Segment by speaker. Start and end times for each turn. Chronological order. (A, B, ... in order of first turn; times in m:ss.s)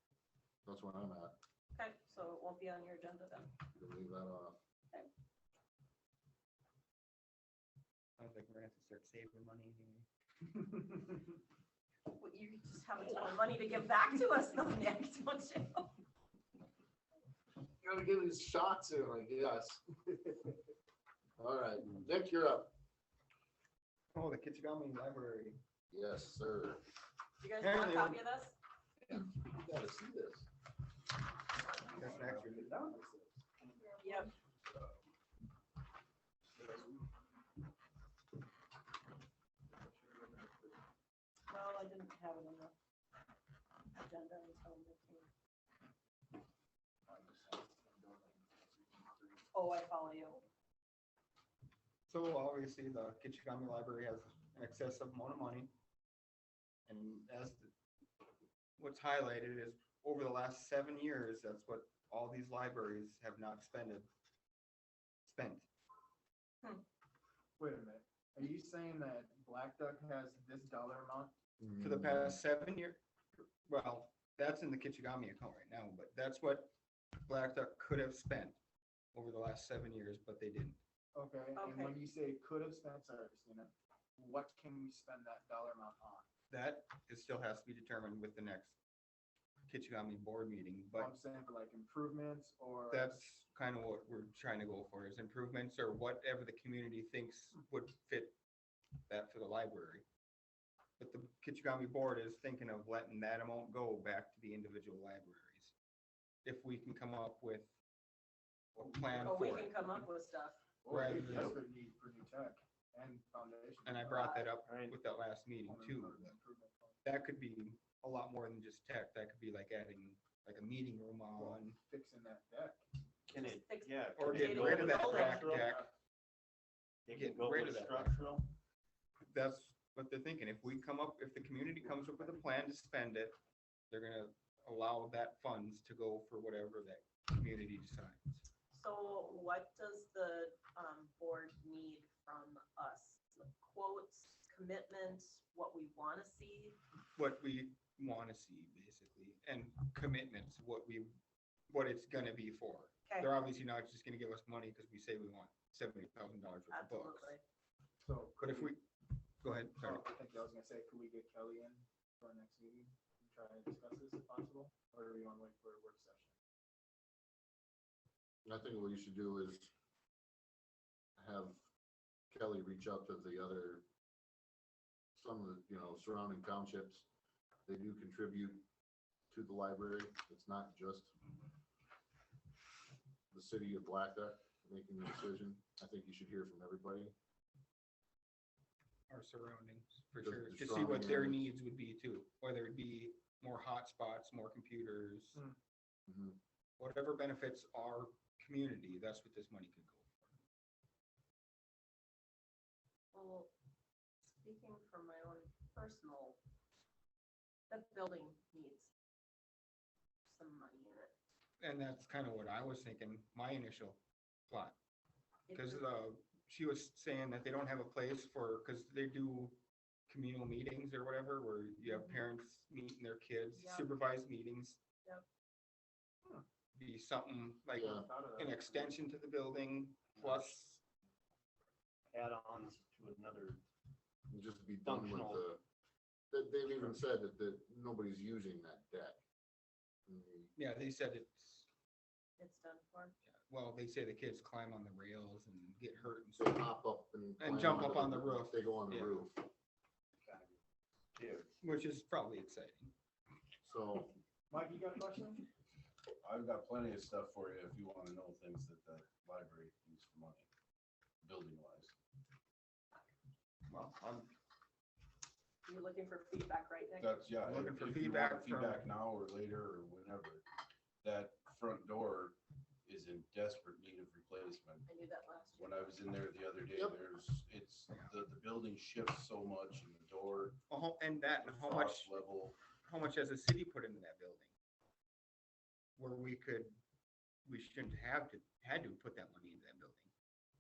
0:00.6-0:01.4 A
0:01.7-0:03.5 B
0:03.7-0:04.6 A
0:08.2-0:10.0 C
0:12.1-0:15.9 B
0:17.8-0:20.6 A
0:21.4-0:22.7 A
0:24.1-0:25.6 C
0:25.9-0:26.8 A
0:27.4-0:28.6 B
0:27.6-0:28.2 C
0:29.1-0:30.5 A
0:31.8-0:33.0 C
0:31.9-0:32.4 D
0:32.1-0:33.4 E
0:34.0-0:34.3 B
0:41.5-0:42.7 B
0:43.9-0:45.3 B
0:47.0-0:49.4 E
0:49.5-0:50.4 B
0:52.1-0:55.7 C
0:56.9-0:57.7 C
0:58.8-1:04.1 C
1:05.2-1:05.7 C
1:07.6-1:11.3 E
1:11.6-1:12.4 A
1:11.8-1:13.0 C
1:13.6-1:18.6 C
1:19.1-1:20.8 C
1:21.1-1:26.3 E
1:21.6-1:22.0 B
1:26.5-1:28.8 C
1:29.7-1:31.1 C
1:31.0-1:33.2 E
1:32.9-1:38.4 C
1:39.1-1:40.0 C
1:41.0-1:45.7 C
1:46.4-1:47.7 C
1:48.7-1:49.9 C
1:49.2-1:50.6 B
1:50.8-1:54.4 E
1:50.9-1:51.6 C
1:53.8-1:56.4 C
1:54.6-1:55.0 F
1:55.6-1:57.0 E
1:57.0-2:01.8 C
2:01.3-2:02.8 E
2:03.3-2:05.7 F
2:03.4-2:05.3 B
2:04.2-2:05.8 C
2:04.8-2:05.9 E
2:07.1-2:08.5 F
2:07.1-2:08.3 C
2:09.2-2:13.4 C
2:13.9-2:18.4 C
2:18.7-2:26.8 B
2:27.2-2:31.1 C
2:31.7-2:37.3 C
2:36.7-2:37.4 B
2:38.0-2:38.7 E
2:38.4-2:38.8 C
2:39.4-2:40.0 C
2:39.8-2:46.3 E
2:48.4-2:49.7 A
2:51.2-2:51.6 A
2:52.3-2:53.8 A
2:55.1-2:57.0 A
2:57.6-2:58.6 A
2:59.3-3:01.1 A
3:03.3-3:07.1 A
3:09.1-3:15.4 C
3:10.2-3:11.5 A
3:16.1-3:16.4 A
3:16.8-3:20.3 C
3:23.1-3:23.5 B
3:24.2-3:26.4 B
3:27.7-3:28.9 B
3:30.2-3:31.1 B
3:31.6-3:34.8 C
3:35.5-3:35.8 B
3:35.5-3:44.8 C
3:43.5-3:44.0 B
3:46.7-3:50.8 C
3:47.8-3:48.1 A
3:48.1-3:48.8 E
3:52.1-3:53.6 F
3:54.3-3:55.6 A
3:54.8-3:55.5 F
3:56.3-3:59.2 A
4:00.1-4:00.5 A
4:00.6-4:01.7 C
4:02.4-4:03.1 B
4:03.3-4:06.7 C
4:06.4-4:09.4 A
4:07.4-4:09.2 C
4:10.2-4:10.5 F
4:11.1-4:11.5 F
4:11.6-4:12.9 C
4:13.6-4:14.1 A
4:14.5-4:15.4 E
4:16.2-4:20.5 D
4:21.2-4:21.9 D
4:23.7-4:24.3 C
4:25.6-4:27.2 B
4:27.0-4:30.4 D
4:27.4-4:28.9 C
4:31.0-4:34.9 D
4:34.9-4:35.8 B
4:35.6-4:40.6 D
4:40.7-4:42.2 C
4:41.4-4:42.6 D
4:42.7-4:44.5 C
4:46.0-4:46.8 C
4:47.4-4:50.1 C